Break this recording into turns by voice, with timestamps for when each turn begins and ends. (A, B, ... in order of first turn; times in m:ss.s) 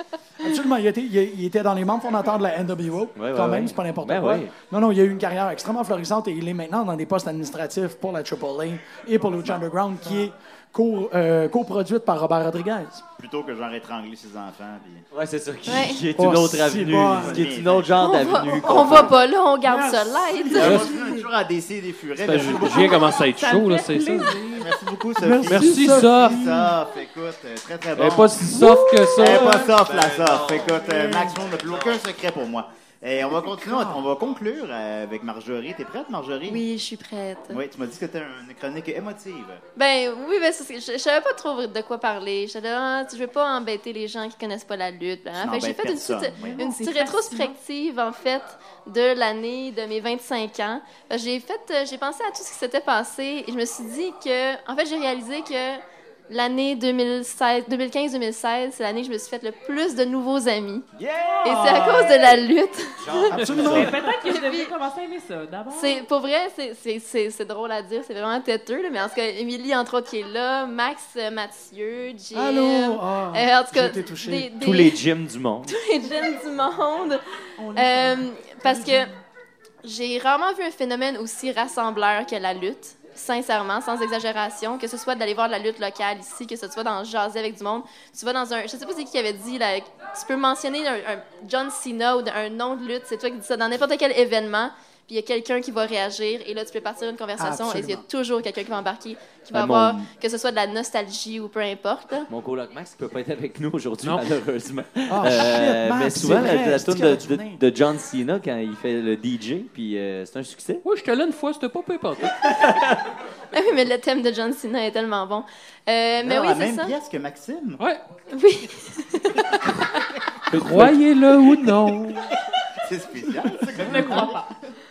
0:00.4-0:13.0 A
0:03.2-0:04.5 B
0:13.2-0:15.0 C
0:15.1-0:19.2 B
0:15.7-0:16.0 D
0:16.2-0:17.5 A
0:17.1-0:19.2 C
0:18.0-0:20.8 D
0:19.6-0:21.2 A
0:20.5-0:23.2 C
0:20.6-0:20.9 E
0:22.2-0:24.5 E
0:23.4-0:24.7 F
0:24.6-0:28.6 C
0:25.2-0:26.7 A
0:25.5-0:26.6 E
0:28.0-0:29.8 E
0:29.1-0:36.6 C
0:29.8-0:30.8 B
0:31.4-0:32.0 B
0:33.6-0:33.9 A
0:36.5-0:37.6 D
0:37.5-0:39.6 C
0:39.8-1:00.9 D
0:45.4-0:46.6 C
0:46.4-0:47.6 F
1:01.0-1:01.6 B
1:01.4-1:03.4 D
1:01.5-1:02.3 F
1:03.0-1:03.9 B
1:03.3-1:04.0 A
1:03.6-1:06.1 F
1:04.2-1:04.7 D
1:05.7-1:15.0 D
1:12.3-1:14.5 A
1:14.6-1:15.8 B
1:15.7-1:19.1 D
1:17.7-1:18.2 F
1:19.8-1:42.3 D
1:37.4-1:38.0 A
1:39.5-1:40.1 B
1:42.3-1:50.8 B
1:44.0-1:44.3 E
1:45.1-1:47.6 A
1:50.8-1:52.8 E
1:53.5-1:56.9 D
1:56.2-1:57.8 C
1:58.3-2:00.0 D
2:00.5-2:02.3 E
2:00.5-2:01.0 B
2:02.8-2:04.4 C
2:03.7-2:04.7 F